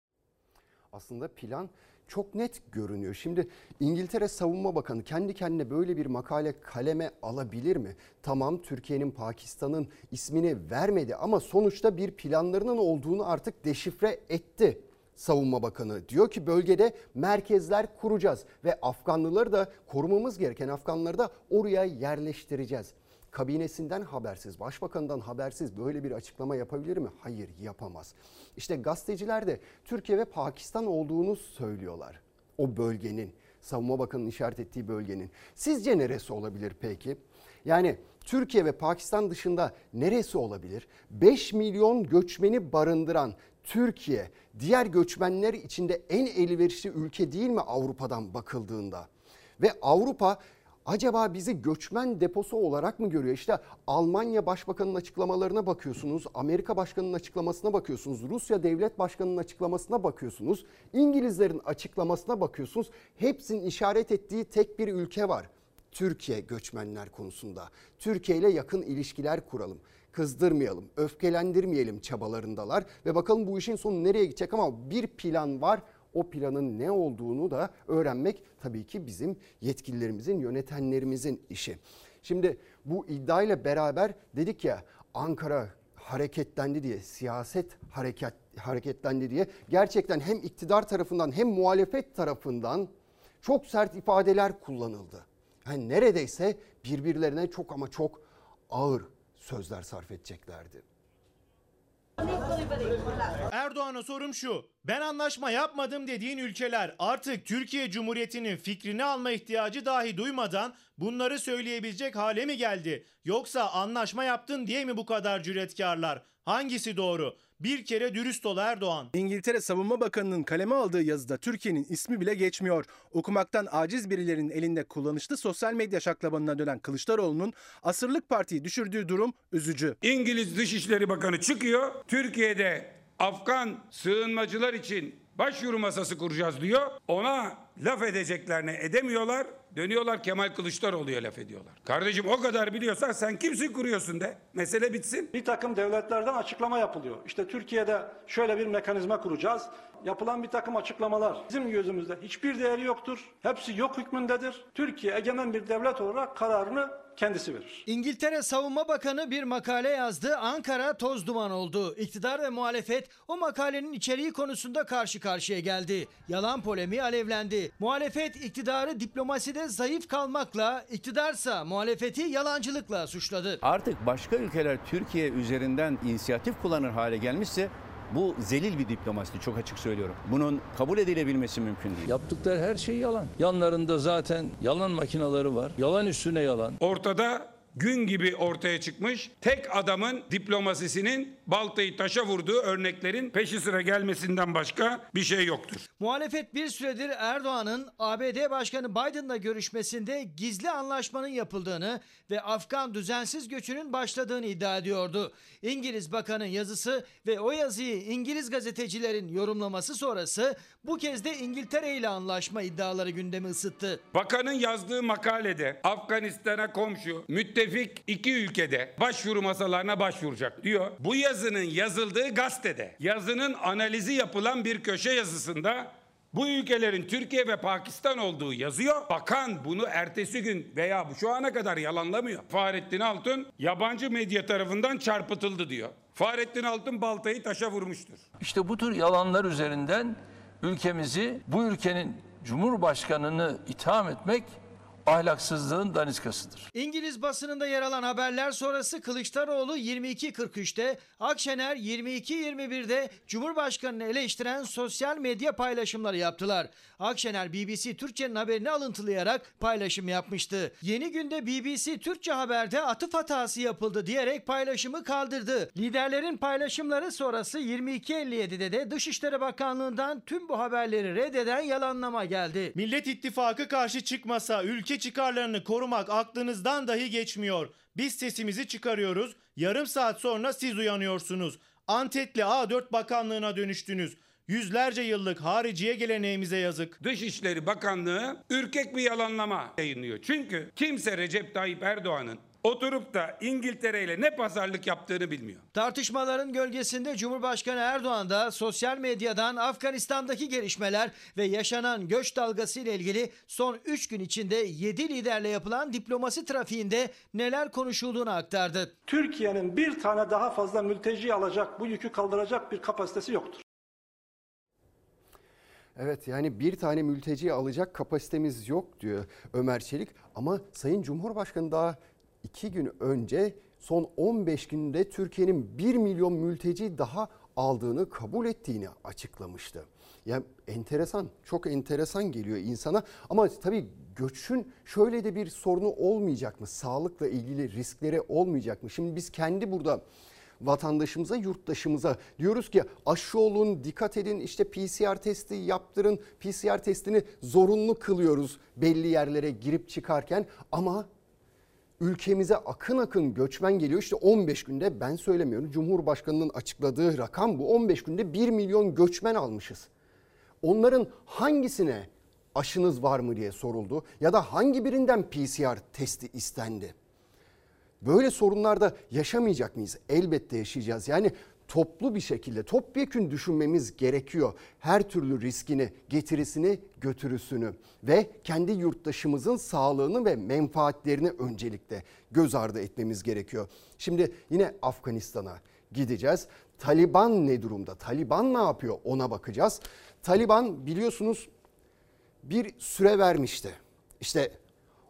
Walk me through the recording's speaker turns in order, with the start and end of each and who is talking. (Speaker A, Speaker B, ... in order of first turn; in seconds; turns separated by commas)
Speaker A: 0.9-100.8, Speaker B: 103.5-119.1, Speaker C: 119.1-130.0, Speaker D: 130.0-145.3, Speaker E: 145.3-157.8, Speaker F: 157.9-173.6, Speaker G: 173.6-182.1, Speaker H: 182.1-186.8, Speaker D: 186.8-195.8, Speaker F: 196.0-214.0, Speaker D: 214.1-238.2, Speaker H: 238.4-246.7, Speaker F: 246.7-272.7, Speaker B: 272.8-287.0, Speaker D: 287.0-295.6, Speaker F: 295.7-308.9, Speaker E: 309.1-313.6, Speaker A: 316.0-340.0, Speaker A: 340.6-351.1, Speaker A: 352.0-359.9, Speaker A: 360.6-366.9, Speaker A: 368.0-391.5, Speaker A: 392.4-394.6